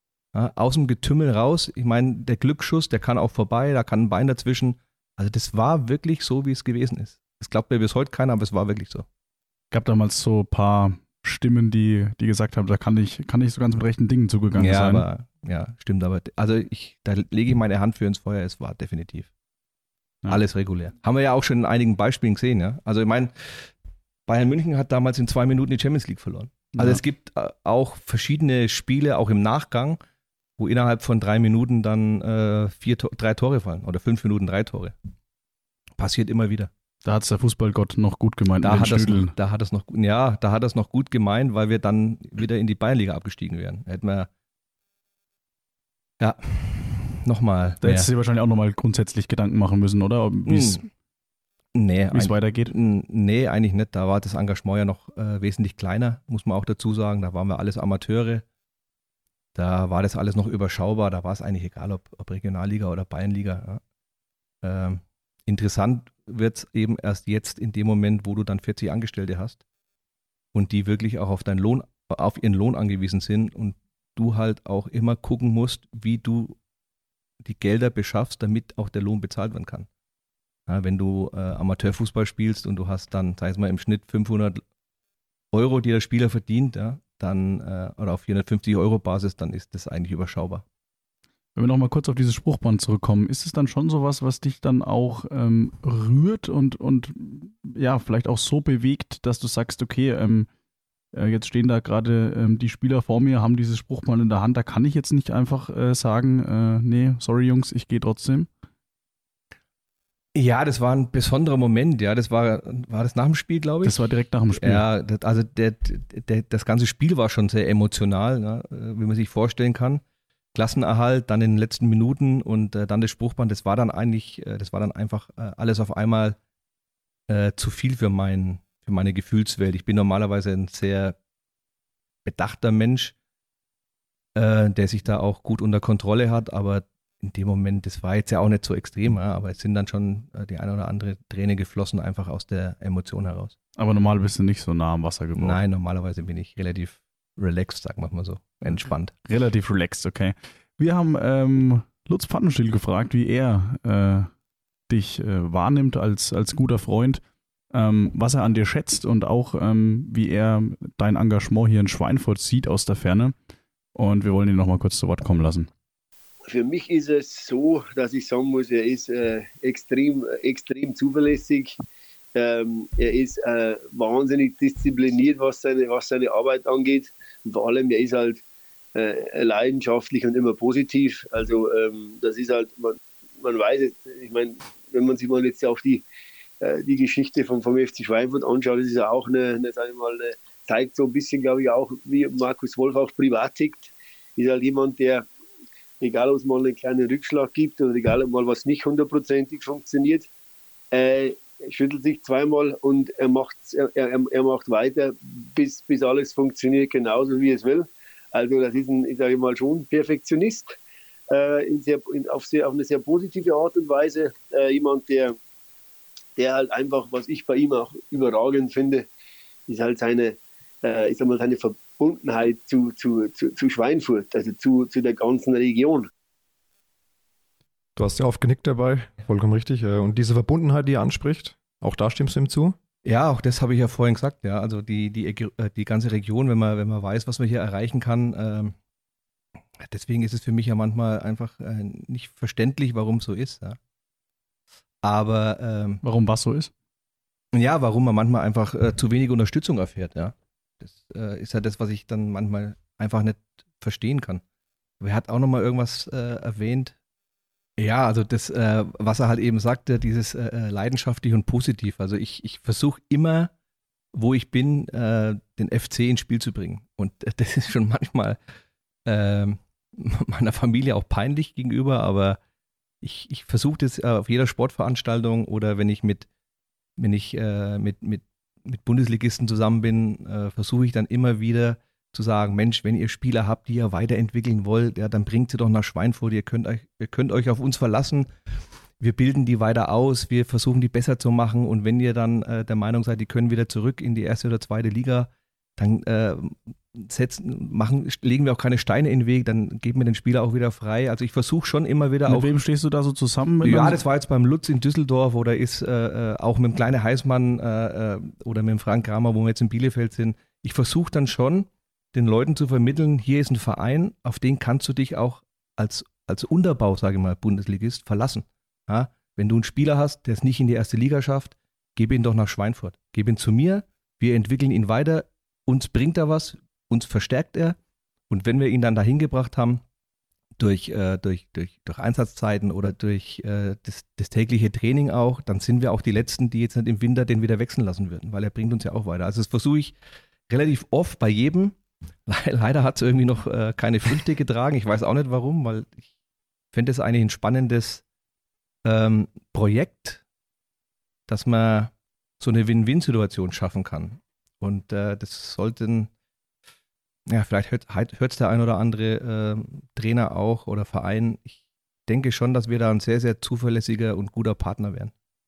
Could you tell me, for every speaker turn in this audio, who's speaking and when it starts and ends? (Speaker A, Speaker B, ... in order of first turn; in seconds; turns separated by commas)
Speaker A: 0.3-9.1, Speaker B: 9.7-15.1, Speaker A: 14.6-19.3, Speaker A: 20.3-23.7, Speaker A: 24.3-30.0, Speaker B: 26.8-27.0, Speaker A: 30.6-35.0, Speaker A: 36.0-36.7, Speaker B: 37.0-39.3, Speaker A: 38.6-44.3, Speaker A: 46.2-48.1, Speaker B: 47.8-50.9, Speaker A: 50.5-50.8, Speaker A: 51.8-58.4, Speaker B: 52.1-52.7, Speaker A: 59.5-63.8, Speaker A: 64.6-69.6, Speaker A: 70.5-76.6, Speaker A: 77.4-79.9, Speaker A: 80.7-84.6, Speaker A: 85.5-90.6, Speaker B: 91.6-100.5, Speaker B: 101.1-108.5, Speaker A: 110.3-120.0, Speaker B: 113.8-114.9, Speaker A: 120.5-126.4, Speaker A: 127.3-131.2, Speaker A: 132.2-133.1, Speaker A: 134.4-143.6, Speaker B: 143.8-145.6, Speaker A: 145.4-149.1, Speaker B: 149.3-154.3, Speaker B: 154.9-157.2, Speaker B: 157.7-163.3, Speaker B: 163.9-165.7, Speaker C: 166.5-171.8, Speaker C: 172.3-178.4, Speaker C: 178.9-186.0, Speaker C: 186.6-195.3, Speaker C: 196.0-200.3, Speaker C: 200.9-210.8, Speaker C: 211.3-215.4, Speaker C: 216.4-219.1, Speaker C: 219.7-226.1, Speaker D: 228.0-232.8, Speaker A: 233.1-238.8, Speaker A: 239.8-243.8, Speaker A: 245.0-246.0, Speaker B: 246.0-246.7, Speaker A: 247.5-254.4, Speaker A: 255.0-256.9, Speaker A: 257.8-263.5, Speaker A: 264.1-268.4, Speaker A: 269.1-272.4, Speaker A: 273.0-276.3, Speaker A: 277.0-288.3, Speaker A: 289.0-302.5, Speaker B: 302.3-304.0, Speaker A: 303.6-327.8, Speaker A: 328.3-329.8, Speaker A: 330.6-339.9, Speaker A: 340.5-341.8, Speaker A: 342.3-346.1, Speaker A: 346.7-348.0, Speaker A: 348.9-350.2, Speaker A: 351.3-356.1, Speaker A: 357.3-365.1